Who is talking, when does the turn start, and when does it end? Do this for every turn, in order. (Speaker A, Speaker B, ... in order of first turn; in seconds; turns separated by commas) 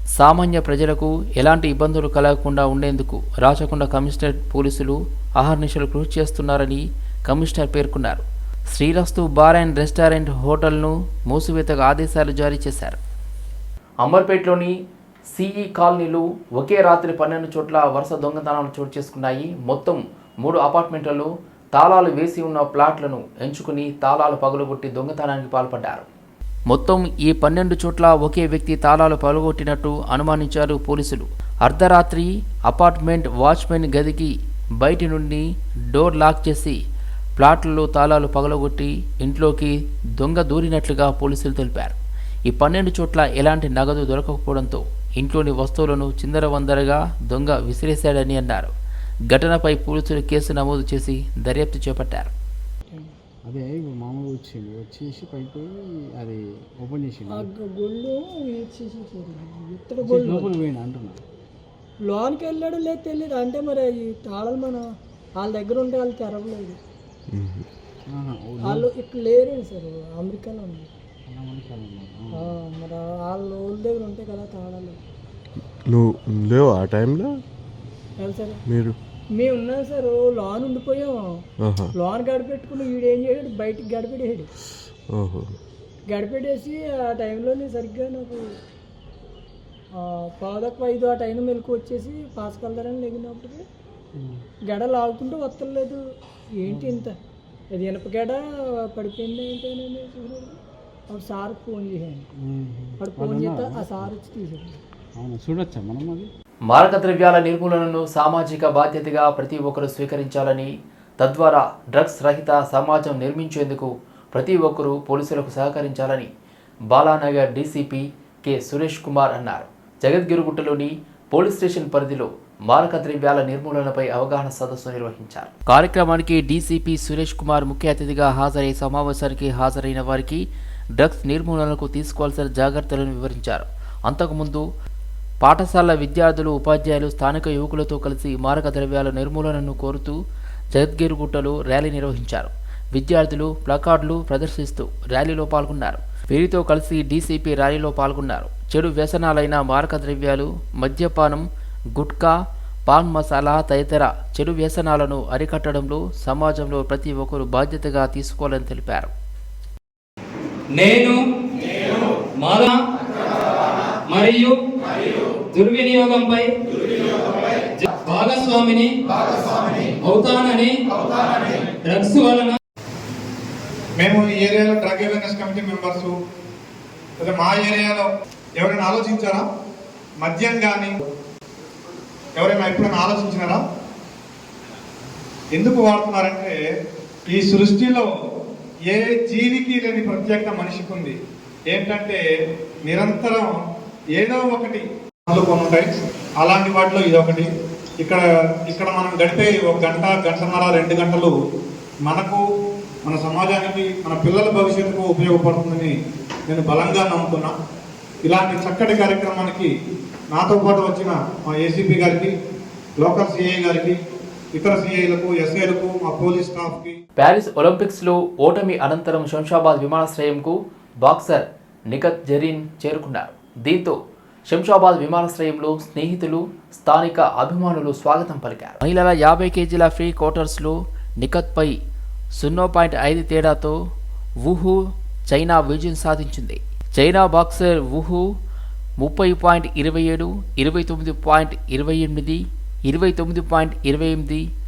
Speaker A: 0.1-13.0, Speaker A: 14.0-14.8, Speaker A: 15.3-26.1, Speaker A: 26.7-36.8, Speaker A: 37.4-48.7, Speaker A: 49.3-52.3, Speaker B: 53.5-57.5, Speaker C: 57.4-60.5, Speaker B: 60.0-61.2, Speaker C: 62.1-64.8, Speaker C: 65.4-66.8, Speaker D: 67.3-67.7, Speaker B: 68.1-68.8, Speaker C: 68.7-70.9, Speaker B: 71.3-72.5, Speaker C: 72.4-75.0, Speaker D: 75.8-77.4, Speaker C: 78.2-78.6, Speaker D: 78.7-79.0, Speaker C: 79.4-81.2, Speaker D: 81.6-81.9, Speaker C: 81.9-84.5, Speaker D: 85.1-85.5, Speaker C: 86.1-88.4, Speaker C: 90.0-93.6, Speaker B: 94.2-94.4, Speaker C: 94.7-96.0, Speaker C: 96.6-97.2, Speaker B: 96.7-97.0, Speaker C: 97.8-98.4, Speaker C: 98.9-100.6, Speaker C: 101.1-102.2, Speaker B: 102.4-104.1, Speaker C: 103.0-104.8, Speaker B: 105.2-106.3, Speaker A: 106.7-116.3, Speaker A: 116.9-130.4, Speaker A: 131.0-134.6, Speaker A: 135.4-140.2, Speaker A: 140.7-152.3, Speaker A: 152.9-159.1, Speaker E: 160.7-161.2, Speaker E: 162.4-162.8, Speaker E: 164.1-164.6, Speaker E: 165.5-166.5, Speaker E: 167.8-168.9, Speaker E: 170.0-170.8, Speaker E: 171.8-172.6, Speaker F: 174.0-176.1, Speaker F: 177.2-178.1, Speaker F: 178.6-179.4, Speaker F: 180.2-181.0, Speaker F: 182.4-183.6, Speaker F: 185.5-186.5, Speaker F: 187.3-188.1, Speaker F: 188.9-191.1, Speaker F: 191.7-192.2, Speaker F: 192.9-193.5, Speaker F: 194.2-195.8, Speaker F: 196.4-197.5, Speaker F: 198.0-201.3, Speaker F: 202.1-202.4, Speaker F: 203.1-205.9, Speaker F: 206.5-207.5, Speaker F: 208.3-209.7, Speaker F: 210.3-212.3, Speaker F: 213.0-213.9, Speaker F: 214.6-216.9, Speaker A: 217.2-224.0, Speaker A: 224.5-231.8, Speaker A: 232.4-233.8, Speaker A: 234.4-238.2, Speaker A: 239.0-244.5